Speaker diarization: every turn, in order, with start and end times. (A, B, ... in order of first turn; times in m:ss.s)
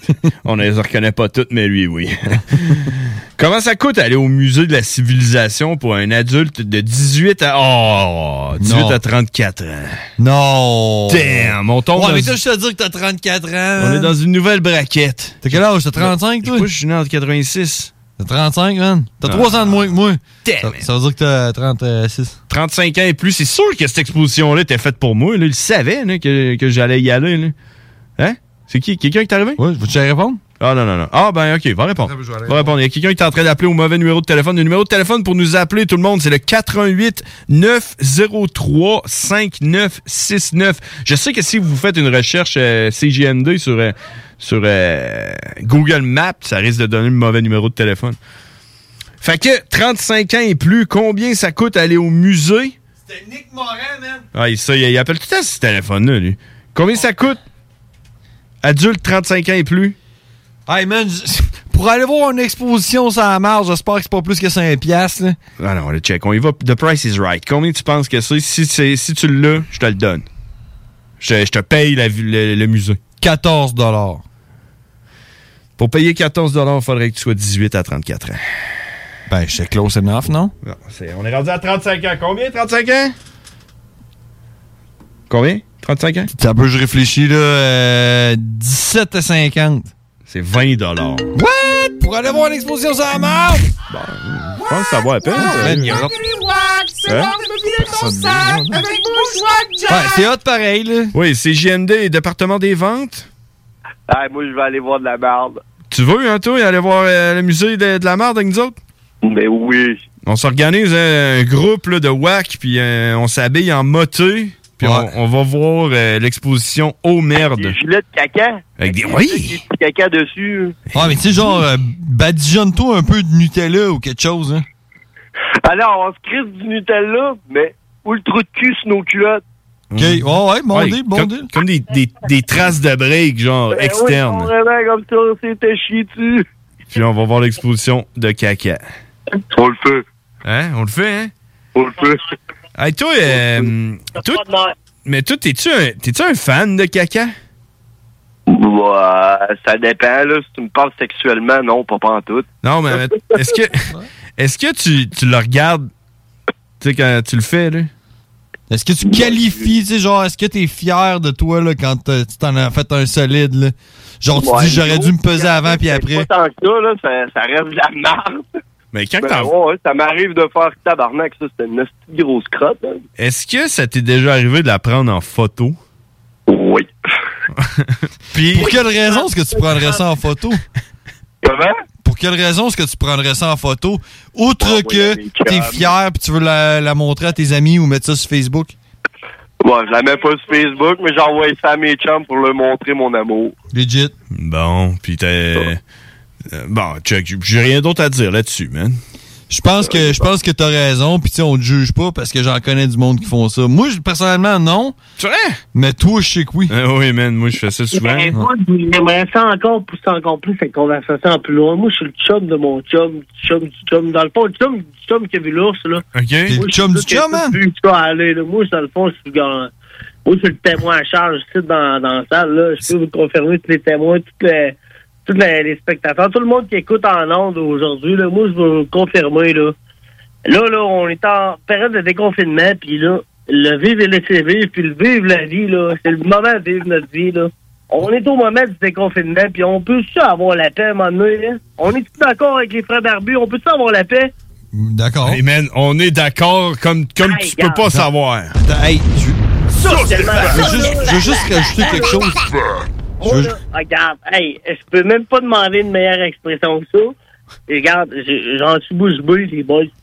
0:00.4-0:10.0 A
0:08.6-0:09.0 B
0:10.2-0:14.1 B
0:11.1-0:12.4 A
0:13.8-0:17.9 A
0:15.4-0:16.7 B
0:18.2-0:22.4 B
0:19.2-0:19.8 A
0:20.4-0:20.9 A
0:22.5-0:27.6 A
0:28.2-0:29.6 A
0:29.6-0:30.4 B
0:30.6-0:48.2 A
0:32.0-0:32.7 B
0:49.2-0:52.8 A
0:53.1-0:54.2 B
0:54.3-0:57.4 A
0:58.6-1:00.0 A
1:00.7-1:05.4 B
1:05.6-1:10.3 A
1:11.2-1:13.0 A
1:13.2-1:14.2 B
1:15.8-1:18.4 A
1:19.3-1:20.5 B
1:20.6-1:23.2 A
1:25.3-1:26.3 A
1:26.3-1:29.9 B
1:30.3-1:31.3 A
1:31.4-1:33.7 B
1:33.9-1:36.1 A
1:35.4-1:36.2 B
1:36.3-1:40.1 C
1:37.1-1:37.3 A
1:37.8-1:39.0 B
1:39.9-1:41.1 B
1:41.1-1:43.3 A
1:44.1-1:45.6 D
1:45.9-1:48.8 A
1:49.2-1:50.0 D
1:50.2-1:57.8 A
1:54.8-1:55.1 B
1:57.4-2:00.8 D
1:58.8-1:59.6 A
2:01.0-2:04.6 B
2:05.6-2:09.4 D
2:09.9-2:14.5 A
2:10.0-2:11.5 B
2:13.7-2:16.4 D
2:16.9-2:18.8 A
2:19.5-2:20.0 D
2:20.4-2:21.3 A
2:21.8-2:22.2 D
2:22.8-2:24.4 A
2:24.2-2:24.7 E
2:25.0-2:27.3 A
2:28.5-2:32.5 D
2:32.6-2:35.9 A
2:36.8-2:37.9 A
2:38.7-2:46.3 B
2:39.1-2:39.6 D
2:44.3-2:48.4 D
2:48.9-2:49.5 A
2:49.2-2:53.0 D
2:53.2-2:55.8 A
2:56.5-2:56.9 D
2:57.6-2:58.8 A
2:58.4-3:00.6 B
3:01.4-3:01.7 D
3:02.0-3:08.8 B
3:04.6-3:05.9 D
3:09.6-3:13.6 D
3:10.1-3:10.8 E
3:13.7-3:14.1 B
3:14.3-3:15.8 A
3:16.5-3:19.0 A
3:19.5-3:25.0 B
3:25.2-3:25.6 A
3:25.7-3:26.7 B
3:26.7-3:28.3 A
3:28.0-3:36.0 E
3:36.1-3:36.6 A
3:36.5-3:37.6 B
3:36.6-3:39.7 E
3:40.3-3:49.7 E
3:50.5-4:04.3 E
4:04.7-4:05.4 B
4:05.2-4:08.6 A
4:07.2-4:07.8 E
4:08.6-4:09.4 B
4:09.7-4:12.3 E
4:09.9-4:10.6 A
4:10.4-4:12.4 B
4:13.2-4:17.2 E
4:13.2-4:13.5 B
4:17.7-4:19.9 E